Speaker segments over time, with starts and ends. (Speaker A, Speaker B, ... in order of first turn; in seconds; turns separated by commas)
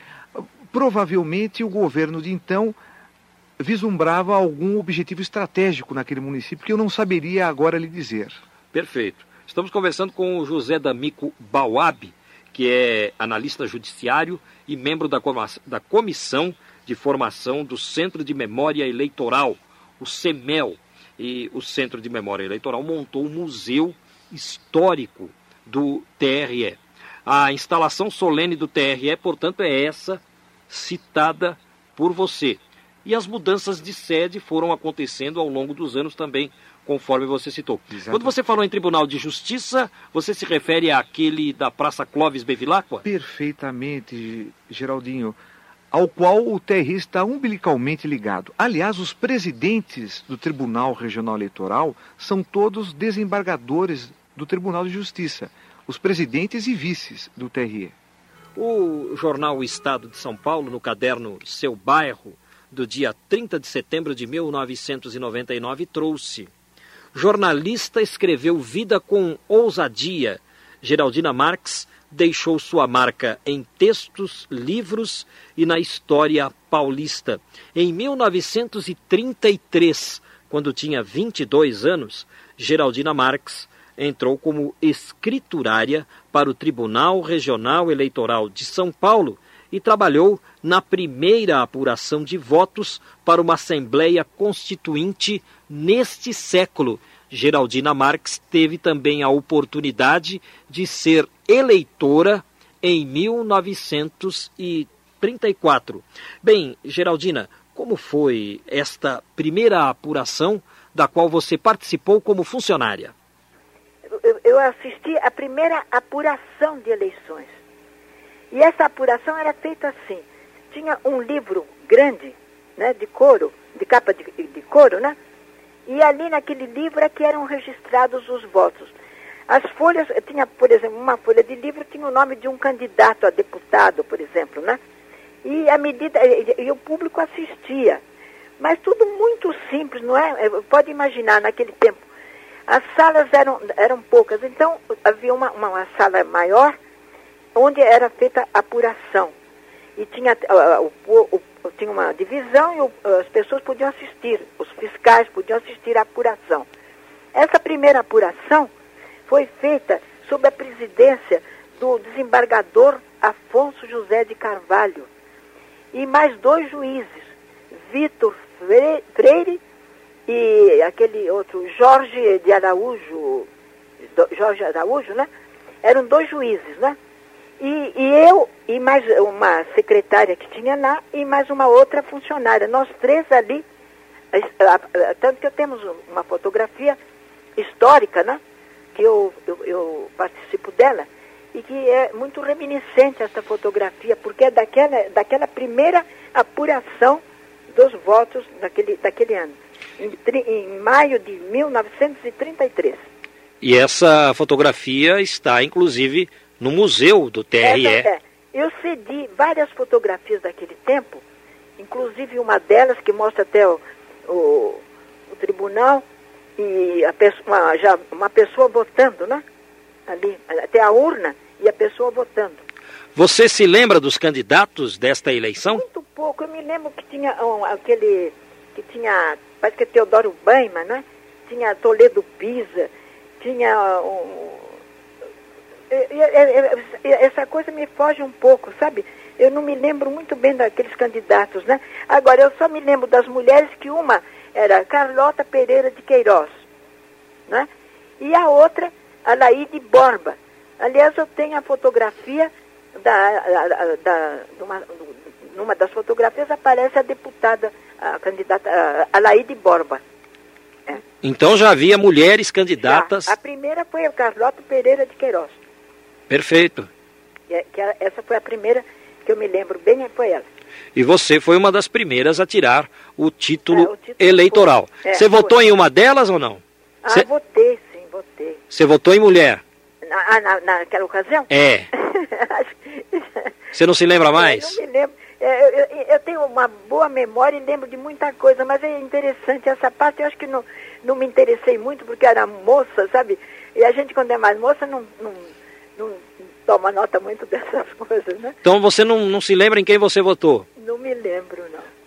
Speaker A: 0.3-2.8, Speaker A: 3.6-8.4, Speaker B: 8.7-43.0, Speaker A: 37.9-38.4, Speaker A: 43.0-45.4, Speaker A: 45.9-57.9, Speaker B: 58.5-66.5, Speaker B: 67.1-113.1, Speaker C: 114.1-117.5, Speaker C: 118.5-125.2, Speaker C: 125.9-128.9, Speaker C: 129.5-134.8, Speaker C: 135.4-138.0, Speaker C: 138.6-142.0, Speaker C: 142.7-146.8, Speaker C: 147.5-149.3, Speaker C: 150.0-156.7, Speaker C: 157.3-158.7, Speaker C: 159.3-165.1, Speaker C: 165.9-167.2, Speaker C: 167.9-169.6, Speaker C: 170.3-173.5, Speaker C: 174.2-175.3, Speaker C: 175.8-177.0, Speaker C: 177.6-183.6, Speaker C: 184.3-187.0, Speaker C: 187.6-188.4, Speaker C: 188.9-197.2, Speaker C: 197.7-203.0, Speaker B: 203.6-208.1, Speaker C: 207.6-211.2, Speaker C: 211.8-216.0, Speaker C: 216.6-219.4, Speaker C: 220.1-222.6, Speaker B: 223.1-225.8, Speaker C: 225.7-234.7, Speaker C: 235.9-246.5, Speaker C: 248.2-260.0, Speaker B: 261.2-263.3, Speaker C: 262.8-265.6, Speaker B: 266.3-266.9, Speaker C: 267.5-270.5, Speaker B: 270.9-277.3, Speaker C: 273.7-275.6, Speaker C: 277.0-278.6, Speaker B: 278.7-279.6, Speaker C: 280.1-283.5, Speaker B: 281.5-281.9, Speaker B: 283.7-284.8, Speaker C: 284.3-298.6, Speaker B: 298.6-300.6, Speaker C: 300.8-301.9